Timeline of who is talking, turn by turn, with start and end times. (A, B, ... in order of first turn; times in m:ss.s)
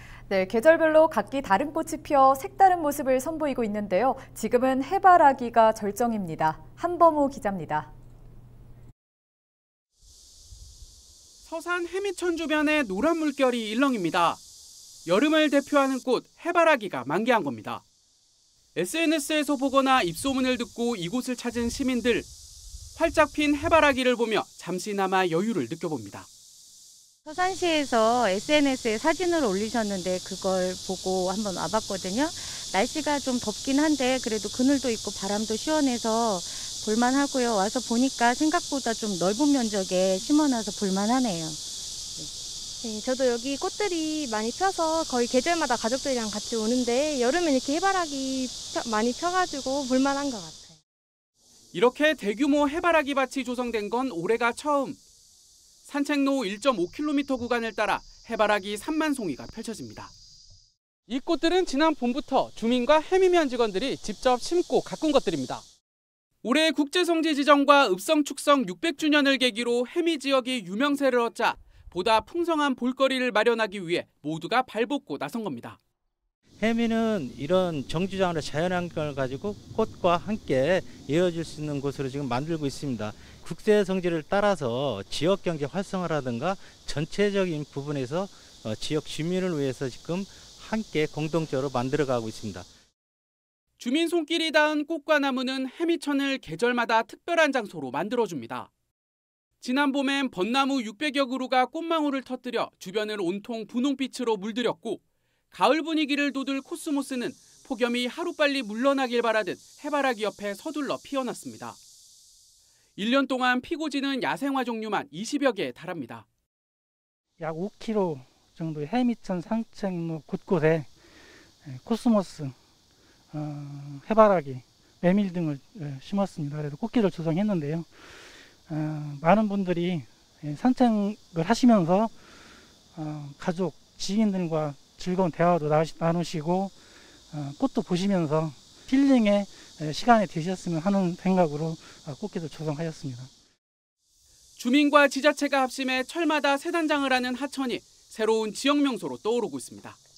0:00.3-0:07.9 A
0:11.4-0:14.4 B
0:15.0-0:17.8 B
0:18.7-0:22.3 B
0:23.0-0:26.3 B
0:27.2-0:41.6 C
0:42.8-0:50.7 D
0:51.7-0:55.0 B
0:55.8-1:00.1 B
1:01.1-1:05.6 B
1:06.4-1:15.8 B
1:16.6-1:32.6 E
1:33.8-1:38.7 B
1:39.6-1:51.8 B
1:53.0-1:56.2 B
1:57.4-2:00.9 F
2:01.6-2:02.5 F
2:03.3-2:07.9 F
2:08.7-2:12.1 F
2:12.9-2:16.7 F
2:17.3-2:23.3 F
2:24.6-2:30.0 B